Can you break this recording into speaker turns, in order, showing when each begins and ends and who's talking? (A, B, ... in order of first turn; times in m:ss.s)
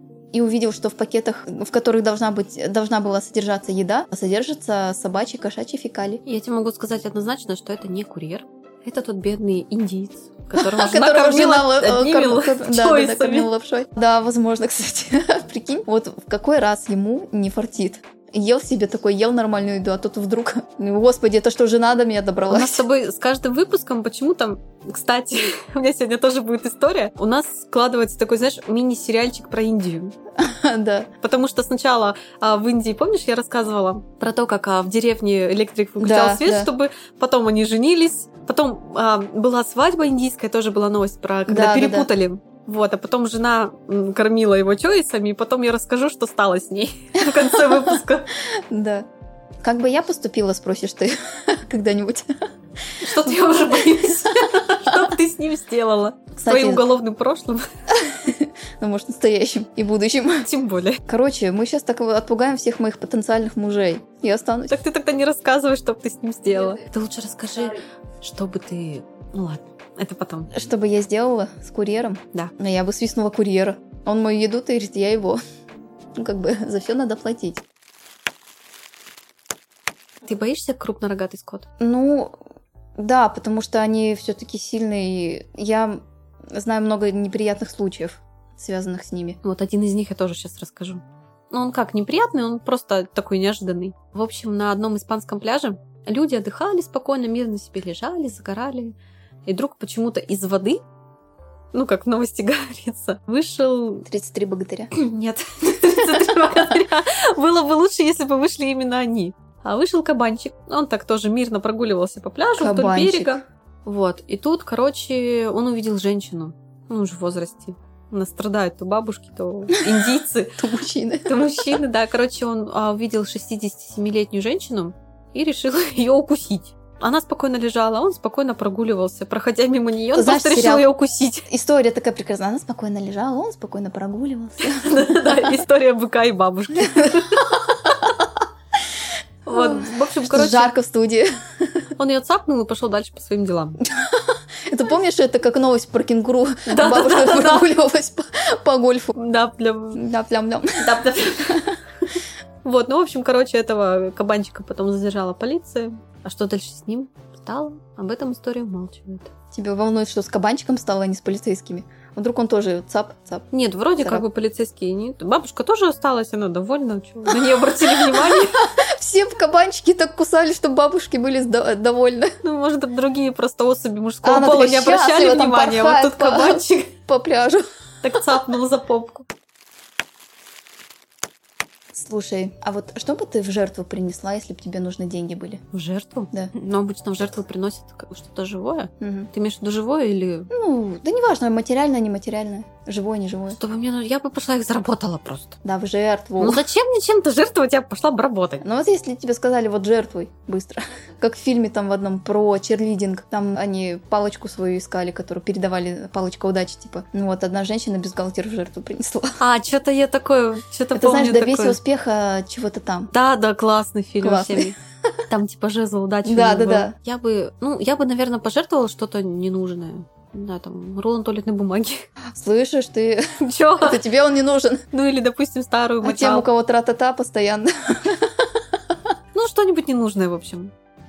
0:00.3-0:06.2 A
0:06.2-0:13.5 B
0:10.6-0:22.8 A
0:22.5-0:30.2 B
0:30.4-0:31.1 A
0:31.2-0:48.3 B
0:36.0-0:36.7 A
0:41.5-0:42.1 A
0:47.5-0:48.0 A
0:48.7-0:49.0 A
0:49.6-0:52.3 A
0:53.0-0:57.6 B
0:53.1-0:54.2 A
0:56.4-0:56.9 A
0:57.9-1:00.5 A
1:00.4-1:01.0 B
1:01.1-1:04.8 A
1:04.7-1:10.5 B
1:10.5-1:15.4 A
1:16.2-1:17.6 A
1:20.2-1:21.6 B
1:21.8-1:22.4 A
1:23.0-1:29.4 A
1:29.4-1:38.9 B
1:39.4-1:40.8 B
1:41.7-1:44.0 B
1:44.0-1:44.9 A
1:44.9-2:00.6 B
1:52.6-1:53.4 A
1:59.7-2:00.1 A
2:00.6-2:01.8 A
2:01.2-2:11.5 B
2:10.1-2:10.9 A
2:11.5-2:15.6 A
2:14.6-2:17.6 B
2:16.8-2:18.2 A
2:19.4-2:20.7 B
2:19.5-2:21.9 A
2:22.0-2:23.8 B
2:23.9-2:29.1 A
2:26.7-2:27.7 B
2:29.1-2:30.0 B
2:29.9-2:30.8 A
2:30.8-2:31.8 B
2:32.6-2:39.3 B
2:39.5-2:43.5 A
2:43.5-2:48.7 B
2:47.3-2:52.3 A
2:52.4-2:56.9 B
2:54.2-2:57.6 A
2:58.0-2:59.2 B
3:01.9-3:05.6 A
3:05.7-3:10.5 B
3:09.0-3:09.3 A
3:10.5-3:13.6 A
3:13.5-3:15.6 B
3:15.6-3:16.6 A
3:16.4-3:18.6 B
3:18.6-3:29.4 A
3:29.4-3:31.8 B
3:30.9-3:33.1 A
3:33.1-3:34.8 B
3:34.2-3:34.7 A
3:35.3-3:42.1 B
3:36.2-3:36.9 A
3:42.3-3:44.8 A
3:43.4-3:44.0 B
3:44.9-3:46.5 B
3:46.0-3:48.5 A
3:49.3-3:50.7 B